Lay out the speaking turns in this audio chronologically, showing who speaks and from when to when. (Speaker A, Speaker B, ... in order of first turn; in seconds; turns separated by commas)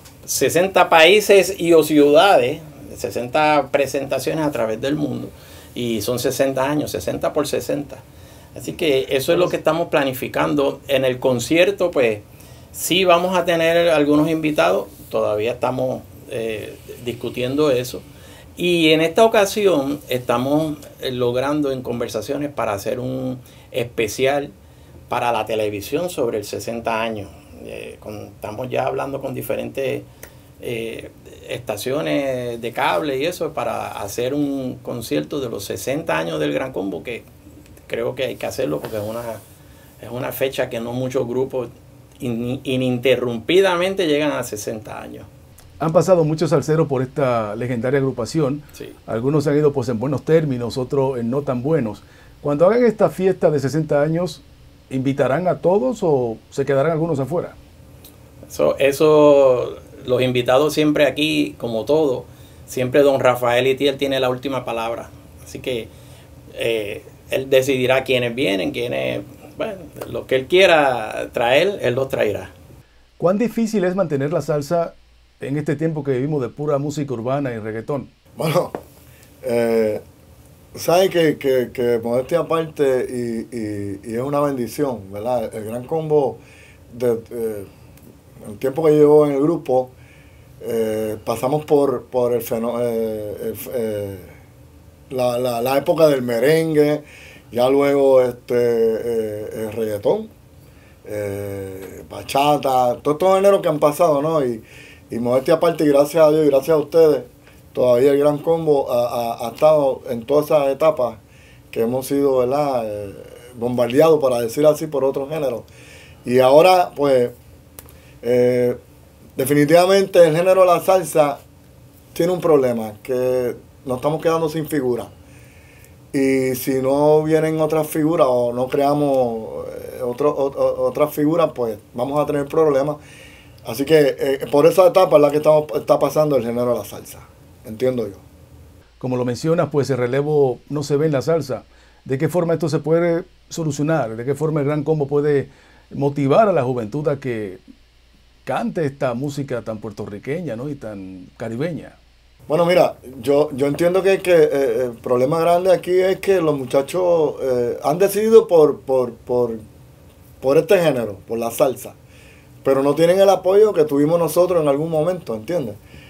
Speaker A: 0.2-8.0, Speaker A: 8.6-18.1, Speaker A: 18.6-24.5, Speaker A: 25.1-30.1, Speaker A: 30.6-37.3, Speaker A: 37.9-39.4, Speaker A: 40.0-45.3, Speaker B: 45.8-57.6, Speaker A: 58.5-65.9, Speaker A: 66.5-72.5, Speaker B: 73.2-78.1, Speaker C: 78.4-78.8, Speaker C: 79.4-80.0, Speaker C: 80.7-87.7, Speaker C: 88.4-89.9, Speaker C: 90.6-94.4, Speaker C: 95.1-100.3, Speaker C: 101.0-111.2, Speaker C: 111.7-115.7, Speaker C: 116.2-117.3, Speaker C: 118.2-118.8, Speaker C: 119.4-121.4, Speaker C: 122.1-125.1, Speaker C: 126.1-133.0, Speaker C: 133.7-138.2, Speaker B: 139.0-147.6, Speaker B: 148.4-152.0, Speaker C: 152.5-159.6, Speaker C: 160.4-162.0, Speaker C: 162.6-165.8